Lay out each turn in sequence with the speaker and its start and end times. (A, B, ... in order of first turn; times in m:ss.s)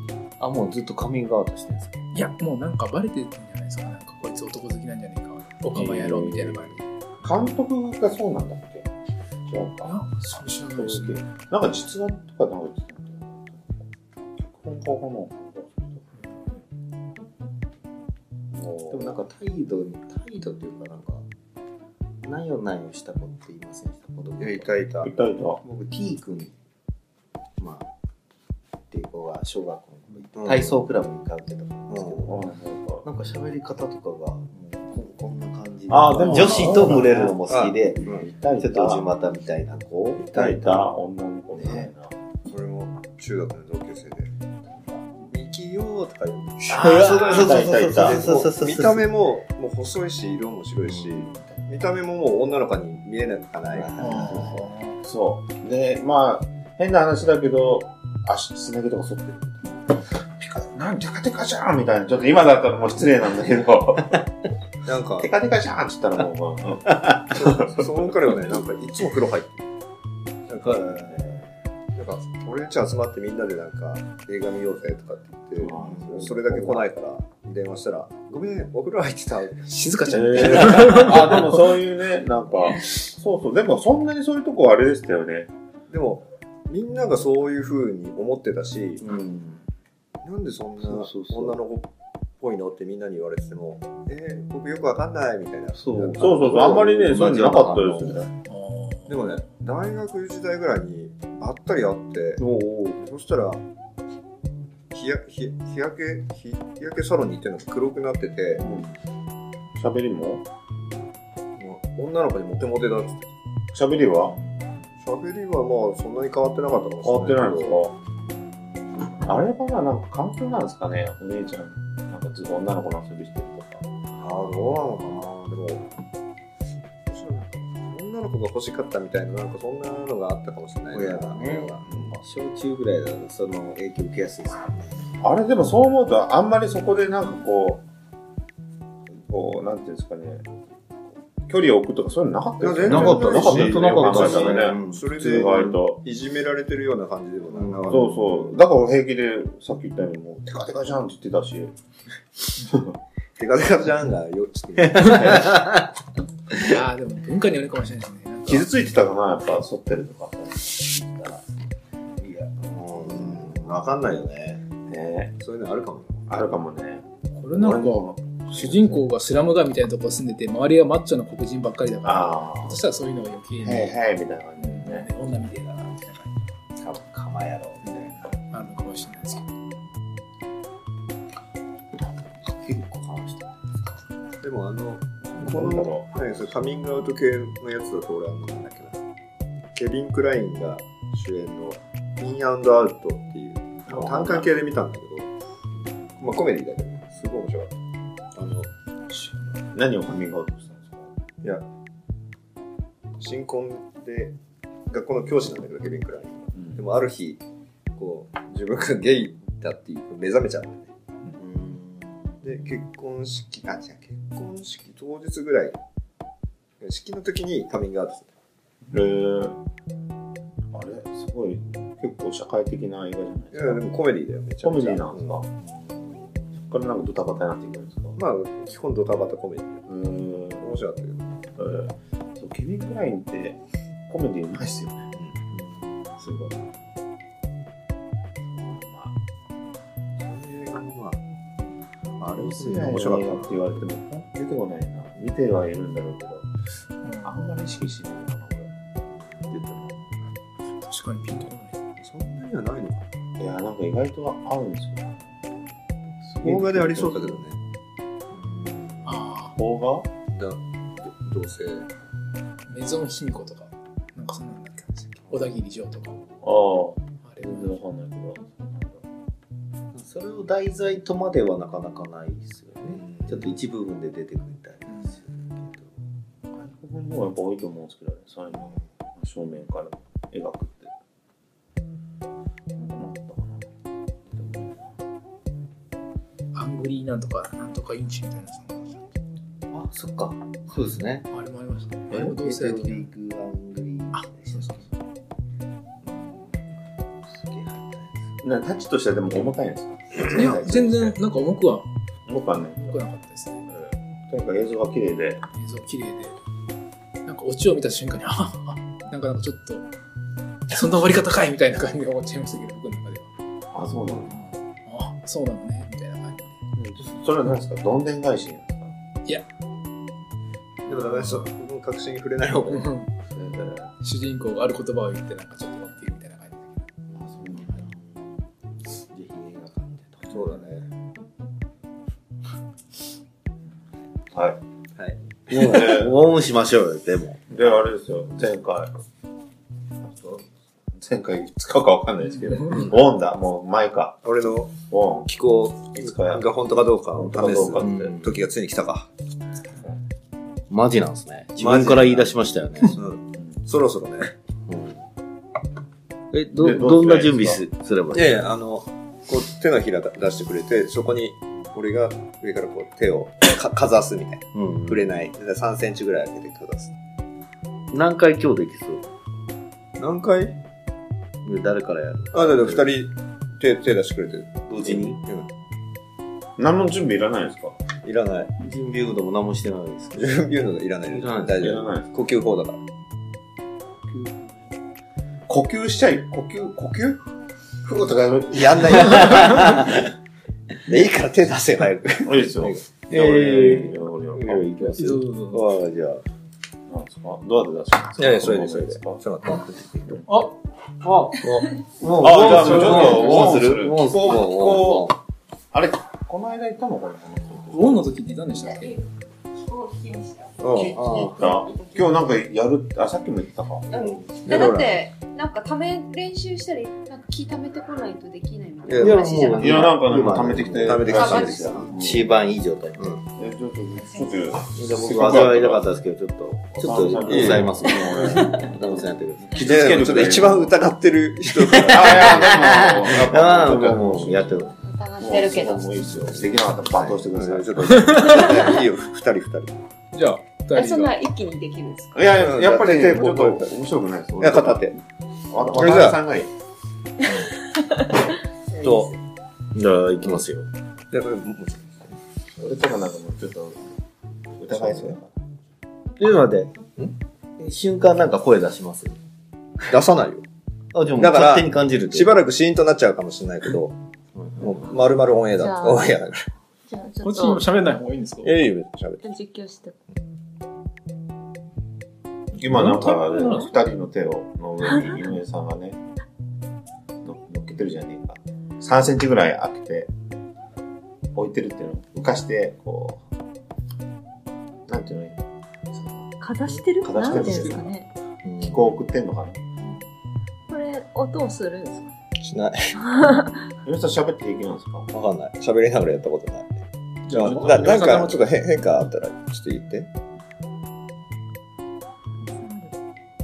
0:00.4-0:02.0 A
0:02.1-0:06.8 B
0:05.7-0:06.7 C
0:07.2-0:08.9 C
0:09.4-0:10.0 C
0:09.8-0:11.2 B
0:10.8-0:13.8 C
0:14.4-0:16.1 C
0:18.5-0:19.1 C
0:18.9-0:21.2 A
0:22.2-0:24.8 A
0:24.4-0:25.1 D
0:25.0-0:25.6 C
0:25.6-0:26.5 A
0:27.6-0:27.9 A
0:28.9-0:32.4 A
0:30.3-0:30.8 D
0:31.9-0:32.3 D
0:32.2-0:33.0 C
0:33.0-0:40.9 A
0:35.9-0:37.4 C
0:36.3-0:36.6 B
0:36.7-0:38.3 D
0:38.0-0:39.1 C
0:40.2-0:42.1 C
0:41.6-0:41.9 A
0:42.4-0:44.3 D
0:45.3-0:54.1 D
0:46.7-0:48.2 C
0:46.7-0:49.1 A
0:51.0-0:51.3 A
0:53.8-0:54.6 A
0:54.0-0:55.0 B
0:54.2-1:04.3 C
1:04.8-1:05.3 D
1:05.2-1:08.0 C
1:07.3-1:09.7 D
1:10.5-1:11.3 D
1:10.5-1:11.5 A
1:11.9-1:21.4 D
1:15.6-1:16.8 C
1:15.8-1:16.6 A
1:19.7-1:21.5 B
1:20.1-1:25.5 C
1:25.9-1:29.0 D
1:29.0-1:29.6 A
1:30.2-1:31.9 D
1:30.8-1:31.6 A
1:32.4-1:36.9 D
1:35.7-1:38.3 A
1:36.2-1:38.3 C
1:38.5-1:39.2 B
1:39.1-1:43.6 D
1:42.4-1:43.0 A
1:44.9-1:48.6 D
1:48.6-1:48.9 C
1:49.7-1:50.4 C
1:51.6-1:53.3 D
1:53.7-1:54.4 C
1:55.0-1:57.8 D
1:57.0-1:57.9 C
1:59.2-2:03.8 C
2:04.1-2:05.9 D
2:04.4-2:05.2 A
2:07.1-2:12.2 D
2:10.9-2:15.1 A
2:15.2-2:17.8 C
2:19.2-2:20.4 C
2:21.5-2:26.0 C
2:22.6-2:28.2 D
2:22.8-2:25.7 A
2:27.6-2:28.2 A
2:27.9-2:31.7 C
2:32.6-2:33.0 C
2:33.4-2:35.7 D
2:34.8-2:35.9 A
2:36.5-2:38.7 B
2:38.5-2:41.4 C
2:42.2-2:44.6 A
2:43.0-2:43.5 D
2:44.9-2:45.3 C
2:45.4-2:46.3 D
2:46.3-2:49.0 C
2:47.3-2:53.9 B
2:52.0-2:52.8 C
2:53.6-2:55.1 C
2:54.6-2:56.4 B
2:56.8-2:58.4 A
2:58.5-2:59.5 B
3:02.4-3:03.8 A
3:04.4-3:09.0 D
3:05.4-3:06.1 C
3:09.7-3:15.3 D
3:13.9-3:14.5 C
3:16.2-3:17.7 D
3:18.3-3:18.7 D
3:19.1-3:21.1 C
3:23.2-3:24.3 D
3:24.9-3:27.4 D
3:28.0-3:30.9 D
3:31.4-3:32.4 A
3:32.4-3:35.8 D
3:36.8-3:38.3 D
3:38.9-3:39.6 C
3:40.7-3:43.8 C
3:43.5-3:45.4 D
3:44.6-3:45.5 C
3:46.6-3:48.2 C
3:48.2-3:49.8 D
3:49.9-3:50.8 C
3:50.6-3:51.4 D
3:51.6-3:55.1 C
3:55.5-3:56.5 A
3:56.2-3:56.5 C
3:58.5-3:59.2 C
4:00.2-4:01.2 D
4:02.2-4:03.6 D
4:02.3-4:06.5 C
4:07.0-4:07.3 B
4:07.2-4:08.7 C
4:09.6-4:09.8 A
4:10.8-4:11.8 B
4:12.0-4:13.1 D
4:13.4-4:15.6 C
4:16.2-4:17.3 C
4:16.4-4:17.6 D
4:19.0-4:19.6 B
4:19.6-4:20.1 C
4:20.3-4:21.9 D
4:22.7-4:26.2 B
4:26.4-4:29.0 C
4:27.2-4:27.8 B
4:29.9-4:35.9 A
4:32.9-4:33.5 D
4:34.9-4:35.1 B
4:36.5-4:40.9 C
4:42.8-4:43.6 C
4:44.3-4:44.9 C
4:46.5-4:49.1 B
4:49.7-4:51.3 A
4:51.3-4:53.1 B
4:52.1-4:54.9 A
4:54.1-4:54.8 B
4:56.0-4:56.7 A
4:57.2-4:58.4 A
4:58.4-5:01.1 C
5:00.3-5:01.9 B
5:02.3-5:03.0 C
5:02.8-5:03.6 B
5:03.7-5:05.4 C
5:05.5-5:06.4 B
5:07.2-5:09.9 B
5:10.7-5:13.3 B
5:13.7-5:14.4 C
5:14.8-5:16.6 B
5:16.7-5:18.9 C
5:20.9-5:22.9 D
5:20.9-5:21.3 B
5:22.7-5:23.1 B
5:23.3-5:23.9 C
5:24.0-5:26.8 B
5:27.2-5:27.8 C
5:27.4-5:28.4 A
5:28.9-5:30.6 A
5:30.3-5:30.8 D
5:34.3-5:34.6 C
5:35.5-5:37.4 A
5:35.5-5:36.1 C
5:37.5-5:38.9 C
5:40.0-5:44.2 C
5:44.2-5:49.1 D
5:44.9-5:45.3 C
5:45.9-5:46.5 C
5:47.2-5:48.1 C
5:47.8-5:48.3 A
5:50.7-5:53.0 A
5:51.6-5:52.3 D
5:52.9-5:54.3 D
5:54.7-5:55.0 A
5:56.3-5:58.4 A
5:56.6-5:57.6 C
5:58.1-6:06.9 D
6:04.5-6:05.3 A
6:07.9-6:09.1 A
6:10.0-6:10.6 D
6:11.4-6:12.9 A
6:12.3-6:15.5 D
6:14.7-6:15.2 A
6:16.6-6:17.8 C
6:18.0-6:18.5 D
6:18.6-6:20.4 A
6:20.1-6:22.8 D
6:21.1-6:21.8 A
6:21.6-6:22.1 C
6:24.1-6:24.5 C
6:25.5-6:27.2 C
6:27.8-6:29.7 C
6:28.5-6:30.0 D
6:29.0-6:30.0 A
6:30.8-6:32.8 D
6:32.2-6:34.7 C
6:33.1-6:36.2 A
6:34.9-6:35.6 B
6:36.9-6:39.2 C
6:38.2-6:40.2 D
6:40.3-6:40.5 B
6:41.0-6:45.2 A
6:42.2-6:45.1 C
6:42.3-6:43.3 D
6:45.7-6:48.0 C
6:47.7-6:49.0 B
6:48.6-6:50.6 E
6:50.6-6:51.3 D
6:50.7-6:53.9 C
6:51.0-6:51.4 A
6:51.4-6:52.2 E
6:53.9-6:59.9 E
6:54.0-6:55.0 D
6:58.9-6:59.4 D
6:58.9-7:01.1 A
6:59.5-7:02.3 C
7:00.8-7:01.9 D
7:01.1-7:01.8 E
7:01.8-7:03.2 A
7:03.3-7:05.8 C
7:04.7-7:10.4 A
7:06.8-7:10.7 C
7:07.2-7:07.8 D
7:09.6-7:12.5 D
7:11.6-7:14.7 A
7:11.8-7:18.2 C
7:14.8-7:16.0 E
7:16.9-7:19.8 D
7:17.9-7:18.4 B
7:18.2-7:18.6 E
7:20.1-7:21.2 B
7:20.7-7:22.2 E
7:22.1-7:24.9 C
7:22.3-7:23.8 D
7:24.4-7:25.0 D
7:25.5-7:26.5 C
7:25.6-7:26.2 D
7:27.4-7:28.1 E
7:28.7-7:29.2 E
7:28.8-7:29.1 D
7:29.7-7:30.7 A
7:31.1-7:32.2 D
7:32.6-7:33.9 C
7:34.6-7:35.4 C
7:34.7-7:35.2 D
7:36.2-7:36.7 A
7:37.6-7:39.2 A
7:39.8-7:40.4 D
7:40.9-7:42.4 A
7:41.2-7:44.0 D
7:44.4-7:44.9 A
7:44.6-7:46.4 D
7:45.6-7:46.1 E
7:46.9-7:47.7 E
7:47.2-7:48.5 B
7:48.4-7:49.2 D
7:49.2-7:50.0 E
7:52.6-7:56.0 C
7:52.7-7:53.6 A
7:52.8-7:53.1 B
7:57.2-8:00.1 C
8:01.3-8:03.2 C
8:04.9-8:05.4 C
8:05.9-8:07.9 C
8:06.4-8:08.1 E
8:07.3-8:07.8 B
8:08.4-8:09.0 A
8:08.6-8:09.6 C
8:10.7-8:12.1 E
8:12.4-8:12.9 D
8:13.0-8:13.6 E
8:13.8-8:15.1 C
8:15.1-8:16.7 D
8:17.2-8:18.4 B
8:17.3-8:20.1 D
8:22.4-8:22.9 E